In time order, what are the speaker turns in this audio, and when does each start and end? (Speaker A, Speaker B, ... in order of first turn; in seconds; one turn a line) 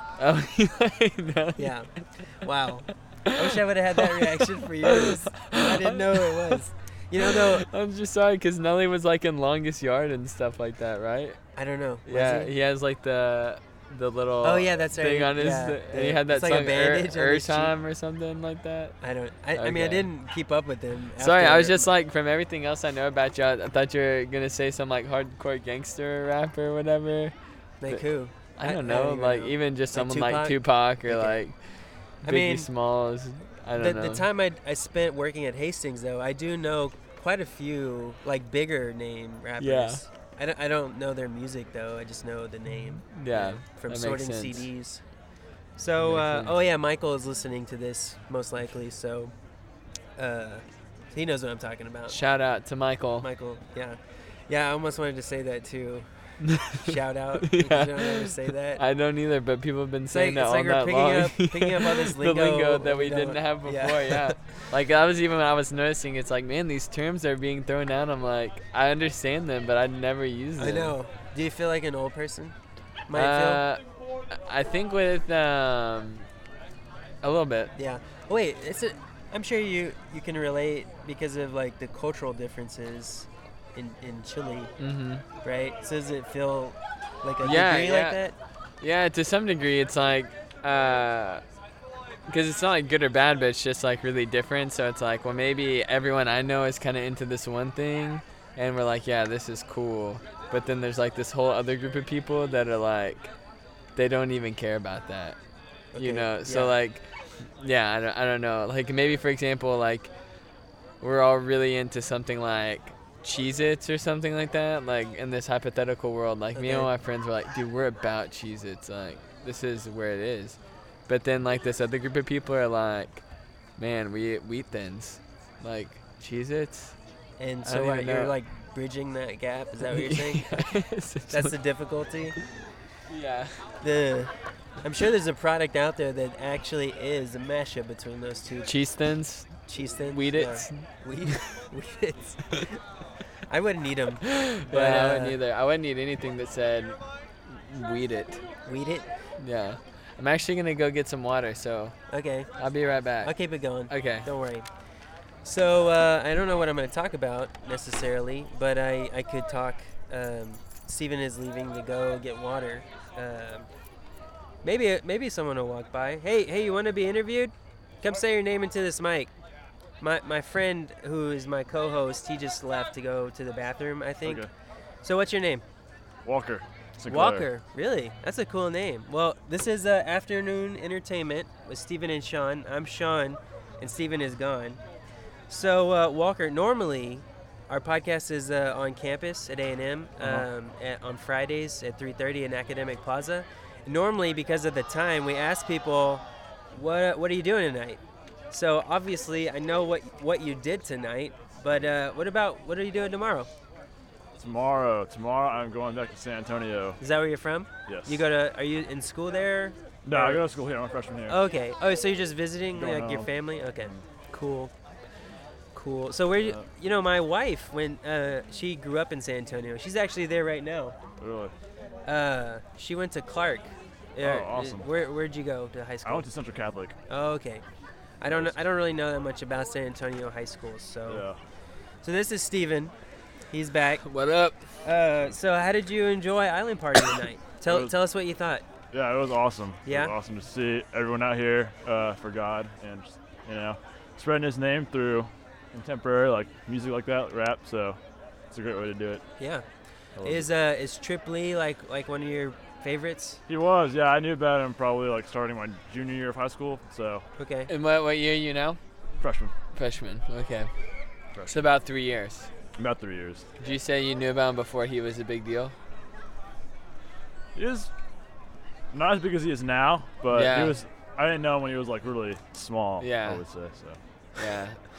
Speaker A: 0.2-2.0
Speaker B: 1.6-7.7
Speaker A: 4.1-6.6
Speaker A: 7.2-11.4
Speaker B: 11.6-12.5
Speaker A: 12.1-19.0
Speaker B: 14.4-17.8
Speaker B: 19.0-21.9
Speaker A: 19.6-20.1
Speaker A: 21.2-27.3
Speaker B: 27.8-31.4
Speaker A: 28.6-31.6
Speaker B: 32.2-32.7
Speaker A: 32.2-34.3
Speaker B: 33.8-45.0
Speaker A: 39.6-40.0
Speaker A: 42.8-44.7
Speaker B: 45.8-49.3
Speaker A: 46.0-46.5
Speaker B: 50.2-52.2
Speaker A: 52.1-53.3
Speaker B: 53.2-58.8
Speaker A: 56.6-71.0
Speaker B: 60.1-64.7
Speaker B: 70.6-72.5
Speaker B: 73.1-73.6
Speaker A: 73.1-73.8
Speaker A: 74.3-76.3
Speaker A: 77.2-77.7
Speaker B: 77.8-84.7
Speaker A: 84.8-85.2
Speaker B: 85.4-88.3
Speaker A: 87.4-88.2
Speaker A: 88.8-91.4
Speaker A: 92.3-103.3
Speaker A: 104.0-105.4
Speaker B: 105.9-106.8
Speaker A: 106.0-110.1
Speaker A: 111.0-123.2
Speaker B: 116.5-116.9
Speaker A: 123.8-127.0
Speaker B: 127.4-130.6
Speaker A: 127.7-128.4
Speaker A: 129.8-131.5
Speaker B: 131.3-132.4
Speaker A: 133.1-133.6
Speaker B: 133.8-138.7
Speaker A: 138.7-141.4
Speaker B: 139.7-142.8
Speaker B: 143.5-145.4
Speaker A: 144.4-148.4
Speaker B: 148.7-149.1
Speaker A: 149.4-151.9
Speaker B: 152.1-152.5
Speaker A: 152.6-153.3
Speaker B: 153.2-154.7
Speaker A: 153.9-154.3
Speaker B: 155.4-163.7
Speaker B: 164.6-169.3
Speaker B: 170.0-174.4
Speaker C: 174.2-174.5
Speaker B: 175.0-175.6
Speaker C: 176.2-177.5
Speaker B: 177.1-184.8
Speaker B: 185.5-203.5
Speaker C: 204.4-207.0
Speaker B: 207.0-210.4
Speaker C: 207.9-208.2
Speaker C: 210.1-211.4
Speaker B: 211.3-214.7
Speaker C: 212.7-214.0
Speaker B: 215.7-221.0
Speaker C: 216.4-216.6
Speaker C: 221.2-221.6
Speaker B: 222.1-226.3
Speaker C: 224.2-224.9
Speaker C: 226.0-227.0
Speaker B: 227.1-227.6
Speaker B: 228.2-231.2
Speaker C: 228.3-228.6
Speaker C: 231.1-231.4
Speaker B: 232.0-232.9
Speaker B: 233.5-234.1
Speaker A: 234.0-234.6
Speaker B: 234.8-238.7
Speaker C: 237.7-237.9
Speaker C: 238.9-248.0
Speaker B: 239.8-240.1
Speaker C: 248.5-249.2
Speaker B: 249.4-249.7
Speaker C: 250.2-250.5
Speaker B: 250.2-253.4
Speaker C: 253.5-257.2
Speaker B: 257.4-257.7
Speaker A: 257.7-258.8
Speaker C: 259.2-259.5
Speaker A: 259.7-260.7
Speaker A: 261.5-262.5
Speaker C: 262.8-263.5
Speaker A: 263.6-265.8
Speaker C: 267.6-267.9
Speaker C: 268.9-274.0
Speaker A: 270.3-270.8
Speaker A: 273.0-273.4
Speaker A: 274.4-274.8